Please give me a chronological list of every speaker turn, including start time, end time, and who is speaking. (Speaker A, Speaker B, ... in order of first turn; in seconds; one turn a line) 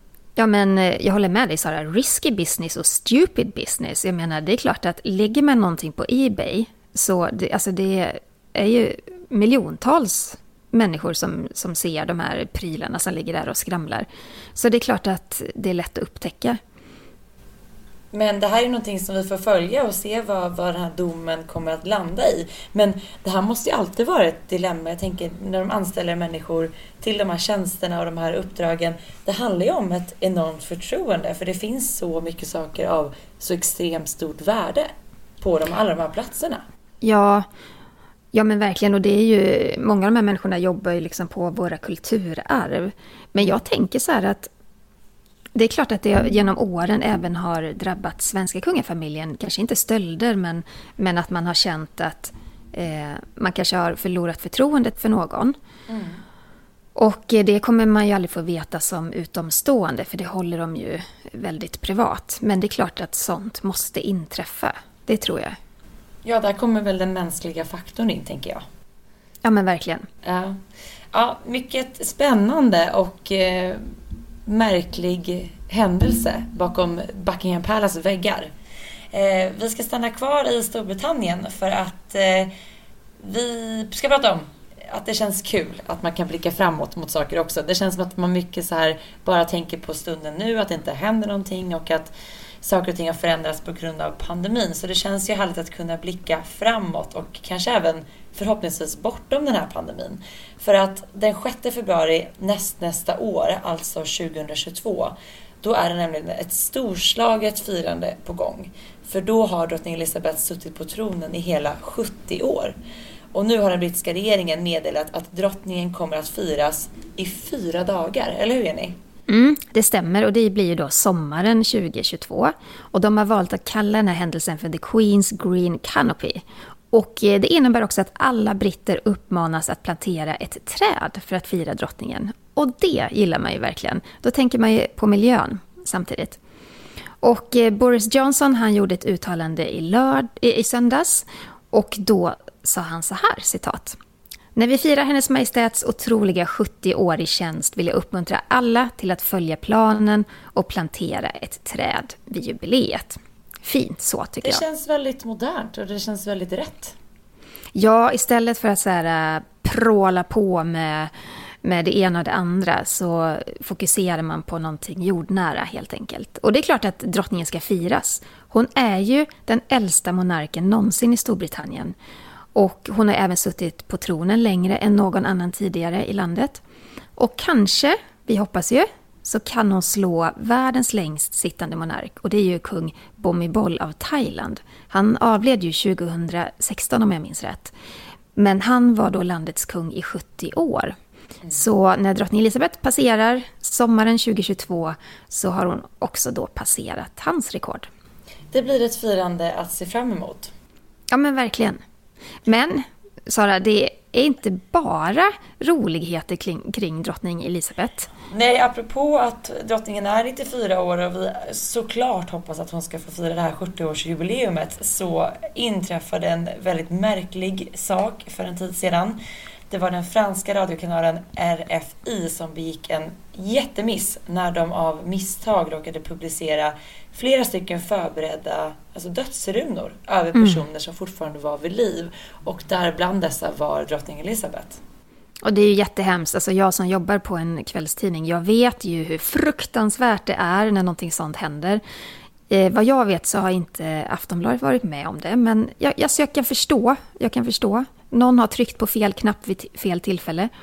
Speaker A: 0.4-16.6
Speaker B: 18.1-34.9
Speaker B: 35.4-36.6
Speaker A: 37.0-37.5
Speaker A: 38.3-44.5
Speaker A: 45.5-55.5
Speaker B: 55.9-56.2
Speaker A: 57.0-65.6
Speaker B: 66.2-68.6
Speaker A: 69.4-70.1
Speaker B: 70.2-70.6
Speaker B: 71.1-73.9
Speaker B: 74.5-78.5
Speaker B: 79.1-82.5
Speaker B: 83.2-112.8
Speaker B: 113.3-119.0
Speaker A: 119.3-136.4
Speaker A: 137.2-144.0
Speaker A: 144.5-154.6
Speaker B: 154.4-156.9
Speaker A: 157.7-161.1
Speaker A: 161.6-171.9
Speaker A: 172.5-176.6
Speaker A: 177.2-187.7
Speaker A: 188.3-190.9
Speaker A: 191.5-197.9
Speaker B: 198.5-200.5
Speaker A: 201.1-201.8
Speaker A: 202.4-208.1
Speaker B: 208.3-234.8
Speaker A: 230.3-230.6
Speaker A: 235.4-241.8
Speaker A: 242.5-250.5